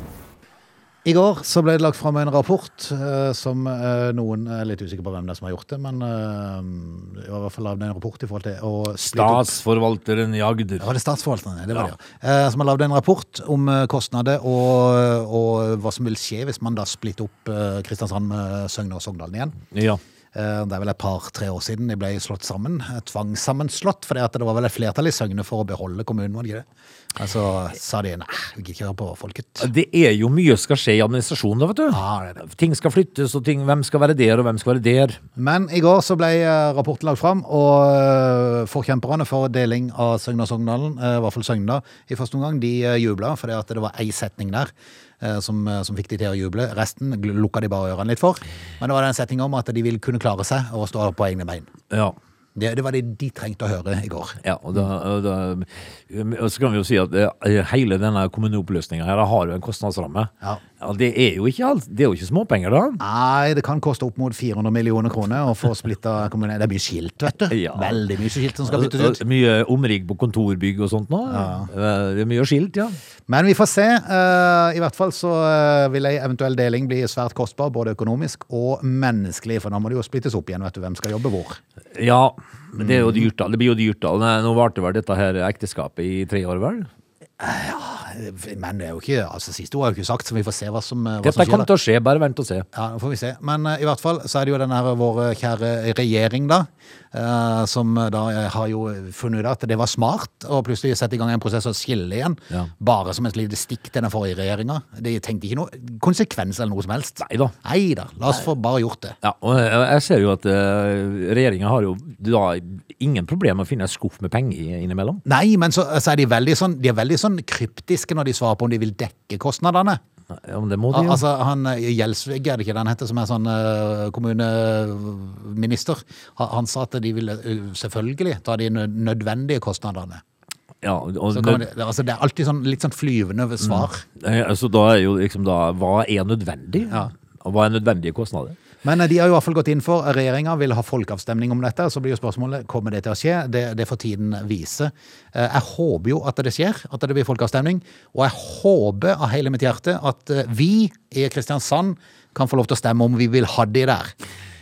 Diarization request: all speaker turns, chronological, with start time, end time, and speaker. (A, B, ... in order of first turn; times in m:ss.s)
0:01.0-0:09.6 A
0:09.0-0:10.9 B
0:10.8-0:19.6 A
0:19.7-0:20.0 B
0:20.3-0:29.7 A
0:29.6-0:35.2 B
0:31.9-0:32.4 A
0:35.4-0:51.7 A
0:51.9-0:52.2 B
0:52.6-0:54.4 A
0:54.4-1:03.0 B
1:03.0-1:09.2 A
1:07.5-1:08.0 B
1:08.6-1:13.0 B
1:11.3-1:11.7 A
1:13.3-1:21.6 A
1:21.9-1:26.9 B
1:22.8-1:23.2 A
1:27.4-1:31.7 A
1:31.2-1:32.7 B
1:32.7-1:49.2 A
1:47.2-1:47.5 B
1:49.2-1:55.2 B
1:55.2-2:00.0 A
2:00.3-2:01.2 B
2:00.9-2:10.2 A
2:10.8-2:11.7 B
2:11.3-2:14.0 A
2:13.6-2:18.6 B
2:18.8-2:34.1 A